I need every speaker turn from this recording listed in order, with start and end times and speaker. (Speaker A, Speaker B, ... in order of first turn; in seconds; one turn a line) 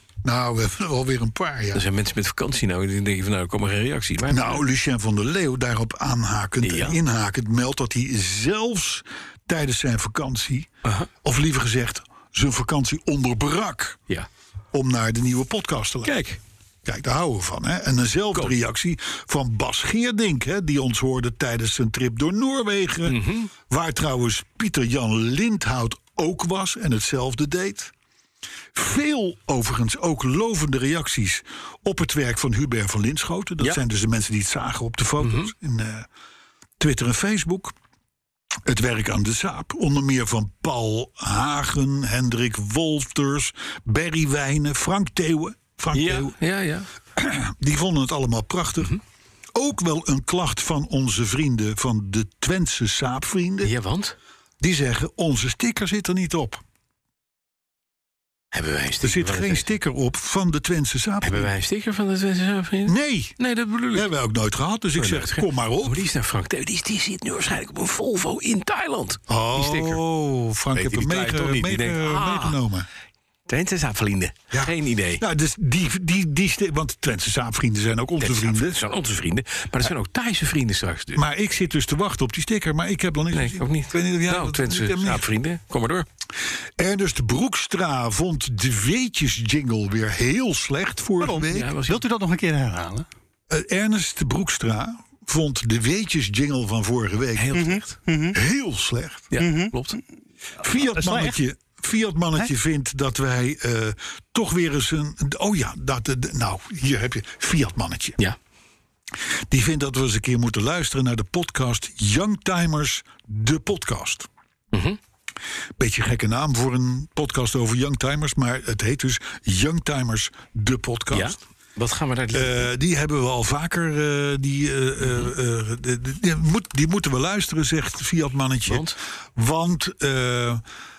Speaker A: 0.2-1.8
Speaker B: 1.7-4.6
Speaker A: 4.3-10.7
Speaker B: 6.6-7.0
Speaker B: 10.8-11.1
Speaker A: 11.2-14.0
Speaker A: 14.7-16.2
Speaker B: 16.1-16.4
Speaker A: 16.9-27.9
Speaker B: 23.1-23.5
Speaker A: 28.7-36.1
Speaker B: 35.2-35.5
Speaker A: 36.8-37.8
Speaker A: 38.7-46.4
Speaker B: 45.9-46.9
Speaker A: 47.2-49.0
Speaker A: 49.5-53.7
Speaker B: 53.6-54.2
Speaker A: 54.6-56.6
Speaker B: 58.5-59.7
Speaker A: 59.0-61.5
Speaker B: 61.2-64.1
Speaker A: 62.9-63.4
Speaker A: 63.9-66.0
Speaker B: 65.0-70.0
Speaker A: 69.3-72.9
Speaker B: 70.7-72.6
Speaker B: 73.5-75.2
Speaker A: 74.5-78.8
Speaker B: 78.2-81.2
Speaker A: 81.2-85.3
Speaker B: 83.3-86.1
Speaker A: 86.8-91.7
Speaker C: 91.2-93.1
Speaker B: 91.5-92.0
Speaker A: 93.5-97.6
Speaker B: 97.4-98.0
Speaker C: 97.5-98.4
Speaker A: 98.3-99.3
Speaker B: 99.3-100.0
Speaker C: 99.4-100.0
Speaker A: 100.6-108.2
Speaker C: 100.9-101.4
Speaker A: 109.5-114.3
Speaker B: 114.7-115.0
Speaker A: 115.8-121.3
Speaker B: 121.1-122.7
Speaker A: 122.3-130.6
Speaker B: 125.0-125.3
Speaker B: 128.7-129.0